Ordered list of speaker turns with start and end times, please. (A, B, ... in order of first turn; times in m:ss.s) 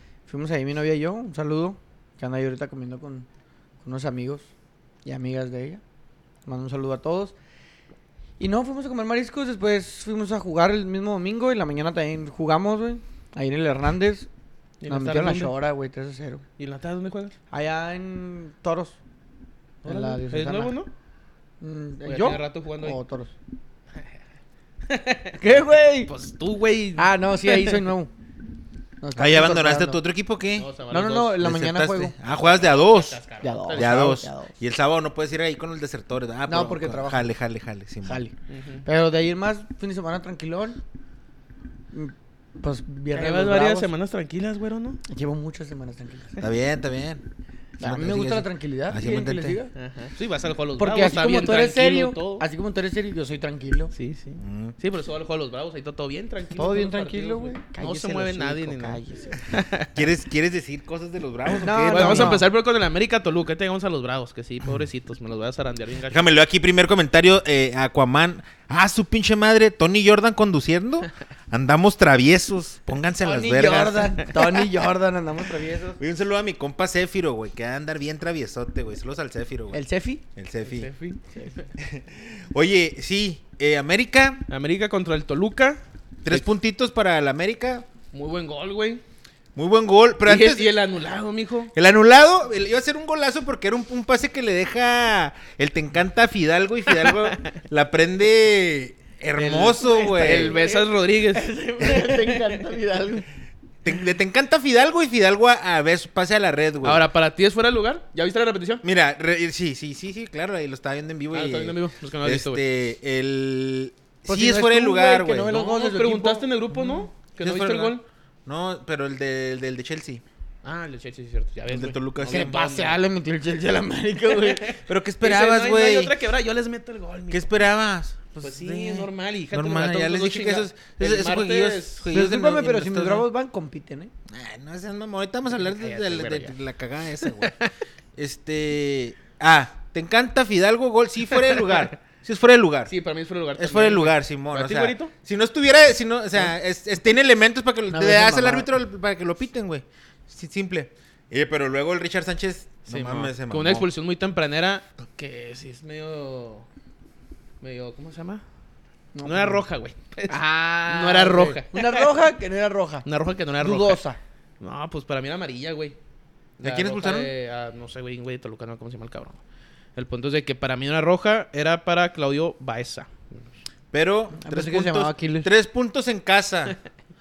0:00.3-0:03.3 A
0:03.8-0:04.5 A
0:05.0-0:05.8 A
0:06.5-0:07.3 A
0:08.4-0:14.3 A
0:14.8-0:15.5 B
0:14.9-0:16.4 A
0:16.6-0:17.4 B
0:17.5-0:19.0 A
0:19.8-0:20.8 A
0:19.8-0:20.9 B
0:21.6-0:23.3 A
0:22.0-0:23.0 B
0:24.9-0:27.8 B
0:25.4-0:26.1 A
0:27.0-0:28.1 A
0:29.0-0:30.0 A
0:29.2-0:30.7 C
0:30.6-0:31.4 B
0:30.9-0:32.1 A
0:31.4-0:33.2 C
0:32.2-0:34.1 B
0:33.4-0:34.6 A
0:33.8-0:38.2 C
0:36.5-0:37.3 A
0:38.0-0:38.3 A
0:38.5-0:38.9 B
0:38.8-0:40.8 A
0:41.9-0:43.9 A
0:43.1-0:45.0 B
0:45.1-0:46.5 A
0:46.4-0:47.2 C
0:47.8-0:49.7 A
0:47.8-0:49.6 C
0:49.8-0:52.5 B
0:50.8-0:53.9 A
0:53.9-1:00.0 B
0:54.4-0:54.8 C
0:56.6-0:59.4 A
0:59.9-1:02.4 C
1:01.6-1:02.5 A
1:01.9-1:06.3 B
1:06.1-1:14.3 C
1:13.2-1:16.0 A
1:13.3-1:14.4 B
1:16.0-1:19.8 C
1:19.7-1:20.2 A
1:20.4-1:20.9 C
1:20.6-1:21.7 B
1:21.8-1:24.4 C
1:24.5-1:26.4 B
1:26.2-1:27.9 C
1:28.1-1:29.0 B
1:29.6-1:30.7 C
1:30.2-1:31.7 B
1:31.7-1:40.6 C
1:36.9-1:37.5 B
1:39.4-1:42.6 B
1:40.0-1:43.3 A
1:43.8-1:47.0 C
1:46.8-1:48.8 B
1:48.8-1:55.7 C
1:51.3-1:52.6 B
1:54.3-1:56.5 A
1:55.5-1:58.0 B
1:57.4-2:00.2 C
2:00.6-2:03.0 B
2:01.7-2:02.7 C
2:02.3-2:04.8 A
2:04.3-2:07.5 B
2:04.8-2:06.1 C
2:07.3-2:13.3 C
2:08.4-2:12.1 B
2:12.1-2:14.1 A
2:14.3-2:17.6 C
2:15.6-2:16.6 B
2:17.2-2:17.7 B
2:18.2-2:22.9 C
2:22.9-2:25.1 B
2:23.6-2:33.9 C
2:27.9-2:28.7 A
2:32.9-2:36.7 B
2:37.6-2:38.4 B
2:39.1-2:39.6 A
2:39.2-2:42.1 B
2:40.3-2:43.1 A
2:43.0-2:44.0 B
2:43.6-2:44.2 A
2:44.6-2:46.0 B
2:46.6-2:49.4 B
2:46.6-2:47.3 C
2:50.0-2:53.5 B
2:53.9-2:56.8 C
2:54.4-2:55.5 A